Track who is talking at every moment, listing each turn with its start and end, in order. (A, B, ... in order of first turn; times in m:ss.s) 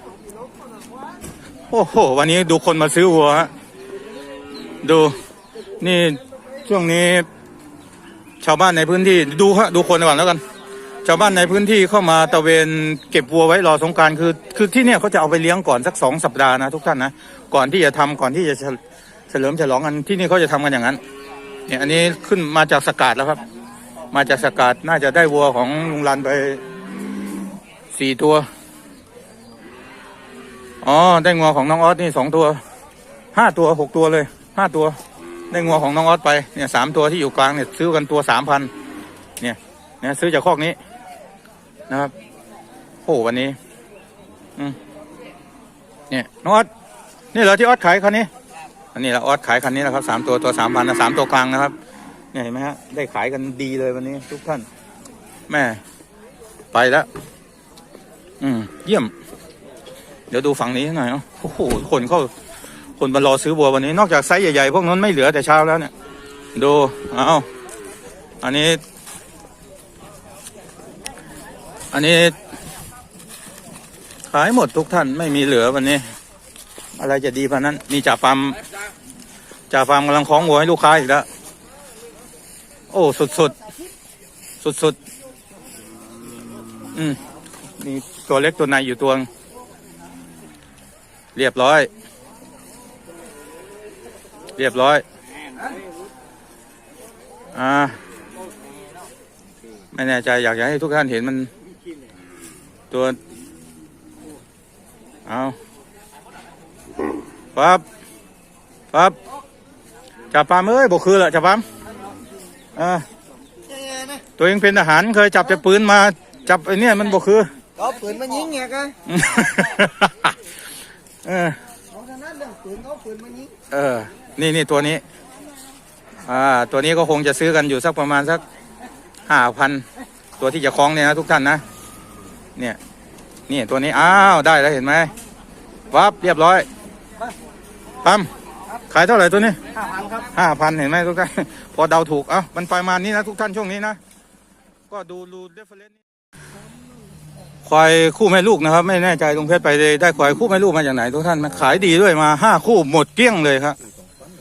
0:01.7-0:03.5 A
0:04.8-0:05.2 A
0:05.8-0:07.3 A
0:08.4-0:10.4 A
0:11.0-0:21.0 A
0:21.7-0:23.4 A
0:24.1-0:26.6 A
0:27.9-0:28.5 A
0:30.8-0:32.6 A
0:33.3-0:35.0 A
0:35.5-0:38.7 A
0:39.4-0:40.8 A
0:43.0-0:43.6 A
0:46.1-0:46.7 A
0:47.3-0:48.3 A
0:48.9-0:51.7 A
0:52.3-0:54.7 A
0:55.5-0:55.8 A
0:56.7-0:57.1 A
0:58.4-0:59.1 A
1:00.3-1:02.3 A
1:03.0-1:05.9 A
1:06.6-1:07.4 A
1:08.4-1:08.8 A
1:11.9-1:12.4 A
1:14.3-1:16.1 A
1:17.0-1:18.6 A
1:19.7-1:21.2 A
1:22.9-1:23.6 A
1:24.6-1:25.0 A
1:26.9-1:27.2 A
1:27.8-1:29.3 A
1:31.3-1:31.9 A
1:34.6-1:35.0 A
1:37.5-1:38.0 A
1:39.9-1:41.5 A
1:42.9-1:43.2 A
1:45.2-1:45.6 A
1:47.5-1:47.8 A
1:50.3-1:51.6 A
1:52.8-1:53.0 A
1:53.8-1:54.2 B
1:54.4-1:57.5 A
1:57.8-1:59.0 B
1:59.1-2:00.3 A
2:01.2-2:01.6 A
2:02.0-2:03.6 B
2:03.7-2:05.0 A
2:06.2-2:08.4 A
2:09.3-2:09.8 A
2:10.4-2:11.6 A
2:13.5-2:15.1 A
2:15.9-2:16.7 A
2:18.0-2:18.3 A
2:18.9-2:19.6 A
2:20.2-2:24.0 A
2:24.9-2:25.9 A
2:27.6-2:33.8 A